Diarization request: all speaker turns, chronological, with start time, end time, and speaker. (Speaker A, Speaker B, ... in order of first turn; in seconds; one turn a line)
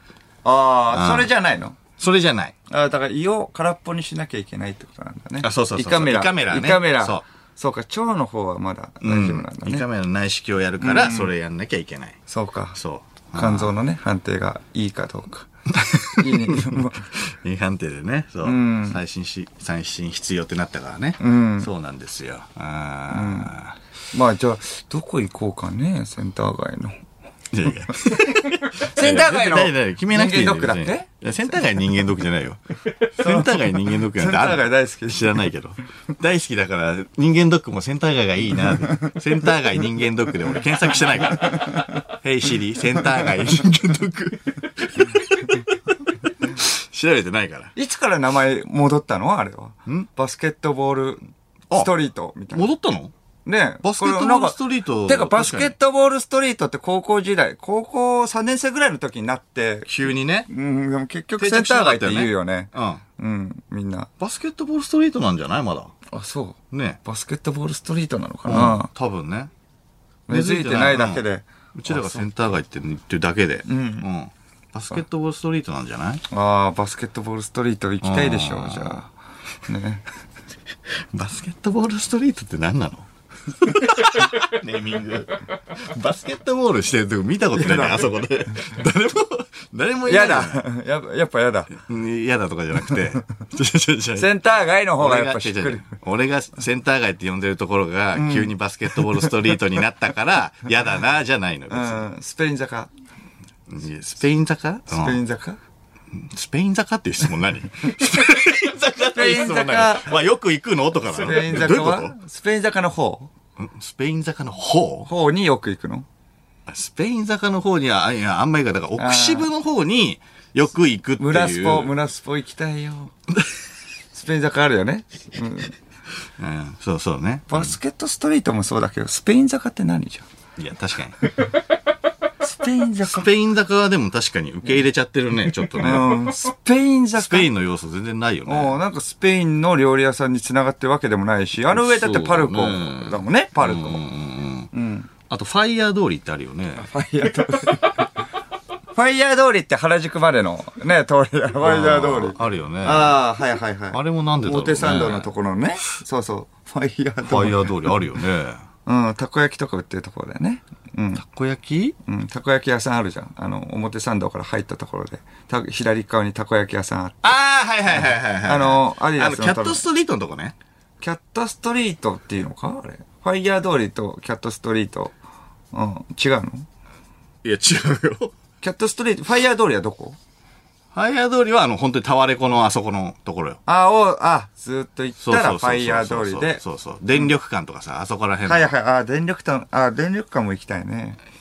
Speaker A: 0.4-1.8
Speaker B: 0.9-1.3
Speaker B: 2.0-2.5
Speaker A: 2.7-9.9
Speaker B: 5.4-7.2
Speaker B: 9.0-12.2
Speaker A: 10.8-11.3
Speaker A: 12.3-12.8
Speaker B: 12.7-13.7
Speaker A: 13.3-15.5
Speaker B: 15.7-23.8
Speaker A: 16.1-17.1
Speaker A: 18.4-19.0
Speaker A: 21.2-21.7
Speaker A: 23.1-23.6
Speaker A: 24.1-27.0
Speaker B: 27.5-32.6
Speaker A: 28.6-31.1
Speaker B: 33.1-47.7
Speaker A: 33.2-35.5
Speaker A: 47.8-51.2
Speaker A: 51.7-52.7
Speaker B: 52.5-53.1
Speaker A: 53.5-59.9
Speaker B: 53.8-55.8
Speaker B: 59.9-60.5
Speaker A: 60.5-64.1
Speaker B: 61.4-63.0
Speaker B: 64.2-65.9
Speaker A: 66.1-68.9
Speaker B: 66.7-67.0
Speaker B: 68.5-69.5
Speaker A: 70.3-72.2
Speaker B: 70.3-71.2
Speaker B: 71.8-76.2
Speaker A: 73.7-74.1
Speaker A: 76.3-79.1
Speaker B: 78.0-79.0
Speaker A: 79.7-80.1
Speaker B: 80.9-90.7
Speaker A: 87.5-88.1
Speaker A: 90.1-91.7
Speaker B: 91.7-94.3
Speaker A: 94.2-95.8
Speaker B: 95.0-102.1
Speaker A: 98.1-99.3
Speaker A: 101.7-102.9
Speaker B: 103.7-105.2
Speaker A: 104.9-105.6
Speaker B: 106.1-112.1
Speaker A: 109.1-110.1
Speaker A: 111.1-113.3
Speaker B: 113.6-115.1
Speaker A: 115.1-116.1
Speaker B: 116.7-121.9
Speaker A: 119.0-119.5
Speaker A: 121.2-123.1
Speaker A: 124.1-125.8
Speaker B: 126.4-127.8
Speaker A: 127.5-130.2
Speaker B: 130.6-131.2
Speaker A: 132.4-133.3
Speaker B: 133.1-136.2
Speaker A: 135.8-137.5
Speaker B: 137.2-138.8
Speaker A: 138.5-144.0
Speaker B: 141.7-144.7
Speaker A: 144.7-145.1
Speaker B: 145.3-146.9
Speaker A: 146.8-148.1
Speaker A: 148.9-157.8
Speaker B: 151.6-153.3
Speaker B: 153.9-155.3
Speaker B: 157.2-158.6
Speaker A: 158.9-161.2
Speaker B: 161.1-161.9
Speaker A: 162.1-167.3
Speaker B: 167.2-170.6
Speaker A: 168.4-169.8
Speaker A: 171.0-175.1
Speaker A: 175.7-176.7
Speaker B: 177.4-178.3
Speaker A: 178.6-180.2
Speaker B: 180.9-183.6
Speaker A: 183.7-186.6
Speaker B: 185.2-188.7
Speaker A: 188.5-191.2